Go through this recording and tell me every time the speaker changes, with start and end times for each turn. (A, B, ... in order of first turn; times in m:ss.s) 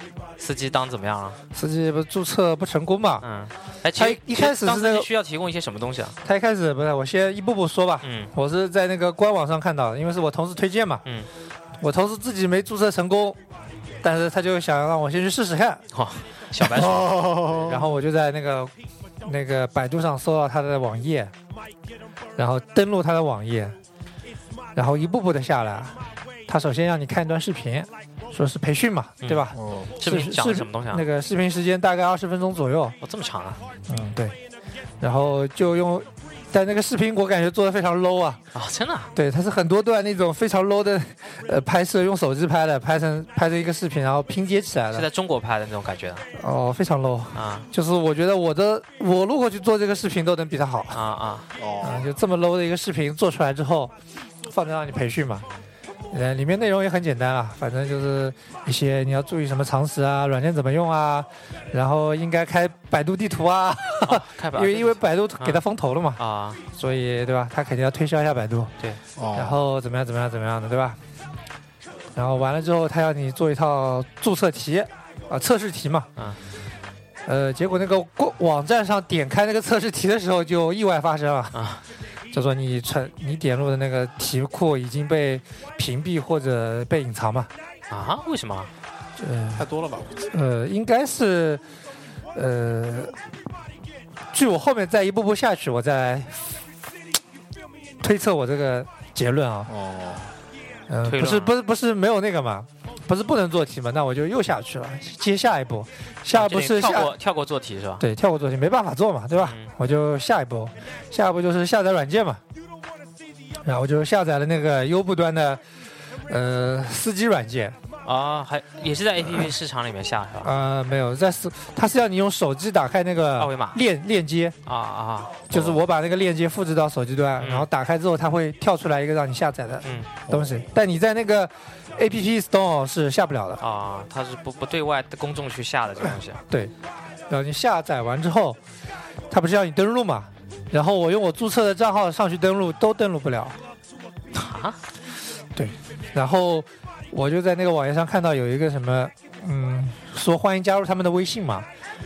0:00.4-0:01.4 A
0:01.5-0:03.2 B
0:03.2-0:06.2 A
0:04.0-0:05.1 B
0:06.2-0:11.0 B
0:08.0-0:08.3 A
0:11.8-0:13.4 B
0:14.0-0:15.8 B
0:15.9-0:17.2 A
0:16.8-0:18.7 B
0:16.8-0:17.8 C
0:19.2-0:21.3 B
0:22.4-0:23.7 B
0:24.7-0:26.0 B
0:26.5-0:33.0 B
0:29.5-0:29.9 C
0:30.0-0:31.0 A
0:33.0-0:33.6 A
0:33.9-0:34.4 B
0:35.0-0:38.4 B
0:38.5-0:39.1 A
0:39.1-0:45.0 B
0:44.9-0:46.2 A
0:46.4-0:51.0 B
0:47.3-0:47.7 A
0:50.9-0:51.4 A
0:51.6-0:52.1 C
0:51.8-0:53.9 B
0:54.5-0:55.4 B
0:56.1-1:06.2 B
1:04.0-1:05.6 A
1:06.2-1:06.6 A
1:06.7-1:08.7 B
1:09.2-1:09.6 C
1:09.3-1:11.0 B
1:12.2-1:16.1 B
1:17.2-1:21.5 B
1:21.5-1:21.8 A
1:22.3-1:27.5 B
1:27.9-1:28.7 A
1:29.2-1:29.7 B
1:29.6-1:30.3 C
1:30.3-1:31.6 B
1:32.3-1:33.1 B
1:34.3-1:36.4 B
1:38.0-1:39.7 B
1:39.7-1:40.3 C
1:40.9-1:47.1 B
1:41.0-1:41.6 A
1:46.3-1:48.0 A
1:48.0-1:52.4 B
1:49.4-1:49.7 A
1:53.6-1:55.6 B
1:56.3-1:57.8 B
1:58.0-2:00.5 A
2:00.4-2:04.6 B
2:03.4-2:03.8 A
2:04.6-2:05.4 A
2:05.5-2:13.6 B
2:05.5-2:05.8 C
2:07.4-2:07.7 A
2:09.8-2:10.1 A
2:10.3-2:10.6 C
2:13.6-2:16.4 A
2:17.3-2:18.6 B
2:19.3-2:23.6 B
2:24.3-2:24.8 A
2:25.6-2:31.7 B